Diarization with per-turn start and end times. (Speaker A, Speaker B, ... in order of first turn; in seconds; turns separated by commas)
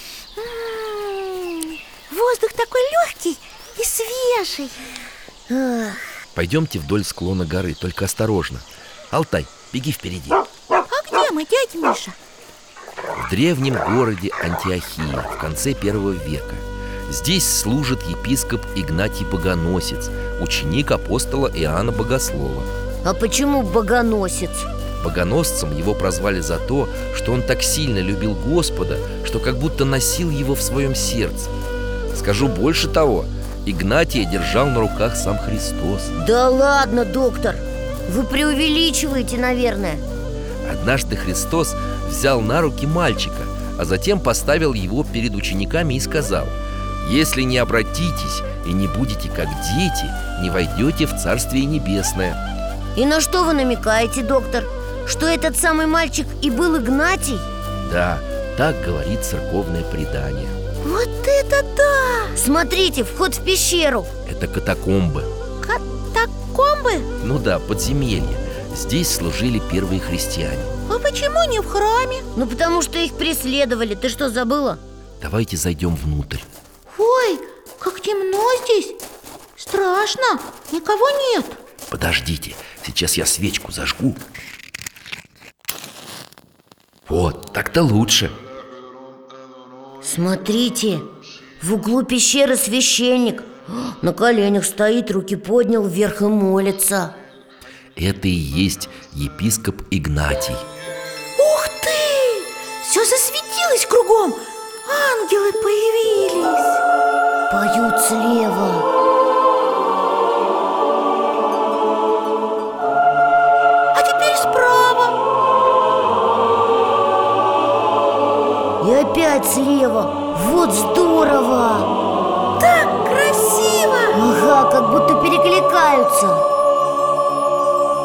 Speaker A: 0.4-4.8, Speaker B: 5.5-6.0, Speaker C: 6.3-10.4, Speaker A: 10.9-12.2, Speaker C: 13.2-22.7, Speaker B: 23.0-24.7, Speaker C: 25.0-31.5, Speaker C: 32.1-36.1, Speaker B: 36.1-40.0, Speaker C: 40.6-52.4, Speaker B: 53.0-57.5, Speaker C: 57.8-60.6, Speaker A: 60.8-62.3, Speaker B: 62.4-64.1, Speaker C: 64.2-65.3, Speaker A: 65.6-67.1, Speaker C: 67.2-70.7, Speaker A: 70.9-72.2, Speaker B: 72.3-74.8, Speaker C: 75.2-76.5, Speaker A: 76.9-79.0, Speaker A: 79.6-81.6, Speaker C: 81.9-84.2, Speaker C: 87.1-88.3, Speaker B: 90.0-91.0, Speaker B: 91.6-97.1, Speaker C: 98.0-100.6, Speaker A: 101.4-106.8, Speaker B: 107.5-108.8, Speaker A: 113.9-115.1, Speaker B: 118.8-121.9, Speaker A: 122.6-124.2, Speaker B: 124.1-126.4